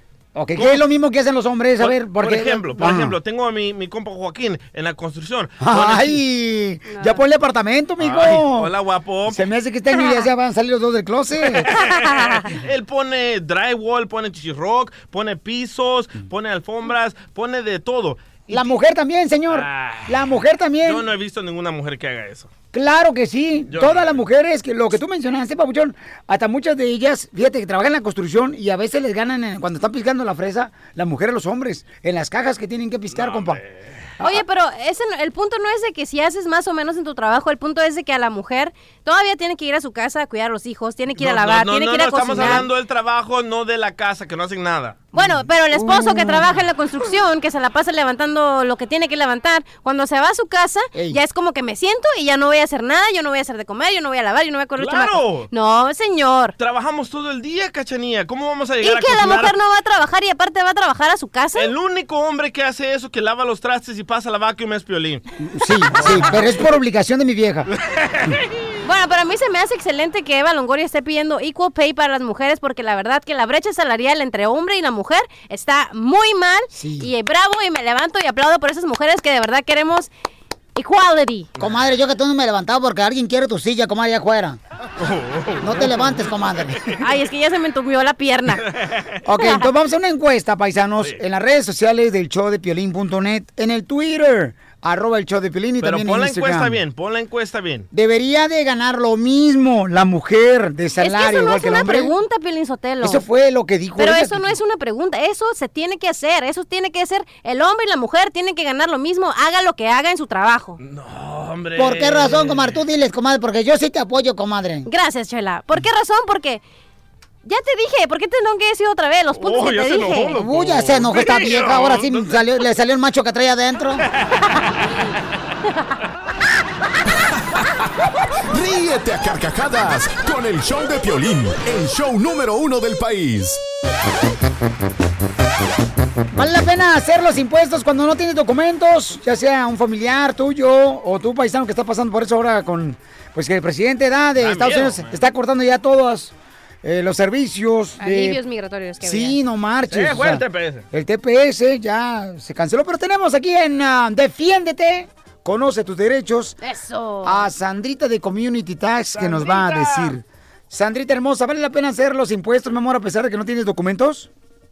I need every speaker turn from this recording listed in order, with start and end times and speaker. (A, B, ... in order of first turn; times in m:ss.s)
0:00.3-0:03.2 A
0:00.5-0:00.8 B
0:01.8-0:06.2 B
0:05.6-0:08.7 A
0:06.9-0:07.2 C
0:08.0-0:09.4 B
0:09.2-0:11.7 A
0:11.7-0:18.7 B
0:11.9-0:12.4 C
0:18.5-0:21.0 A
0:19.5-0:22.5 B
0:22.7-0:33.6 A
0:23.7-0:24.2 B
0:33.1-0:34.1 B
0:34.2-0:42.7 C
0:41.2-0:45.0 B
0:42.3-0:42.6 A
0:45.1-0:56.5 C
0:45.2-0:46.6 A
0:50.9-0:51.2 A
0:54.8-0:55.5 B
0:56.6-0:59.5 B
0:58.8-1:01.7 C
1:01.6-1:05.2 B
1:05.5-1:07.7 A
1:05.9-1:06.4 B
1:08.8-1:20.1 C
1:16.7-1:17.1 A
1:20.8-1:21.5 C
1:21.6-1:24.6 A
1:25.0-1:26.3 B
1:25.6-1:26.9 A
1:27.0-1:28.7 C
1:28.8-1:29.1 B
1:29.2-1:36.8 A
1:35.8-1:37.9 B
1:37.9-1:42.2 A
1:41.0-1:43.2 C
1:43.0-1:44.5 A
1:44.0-1:50.8 C
1:50.8-1:52.8 B
1:51.8-1:54.9 A
1:54.8-1:56.6 C
1:57.4-2:00.4 C
1:59.3-2:02.4 B
2:00.2-2:04.0 A
2:08.5-2:13.6 D
2:16.3-2:28.4 A
2:24.4-2:25.2 B
2:28.0-2:29.4 C
2:29.0-2:36.6 A
2:29.9-2:30.8 B
2:36.6-2:37.5 C
2:37.2-2:44.3 A
2:39.1-2:40.2 B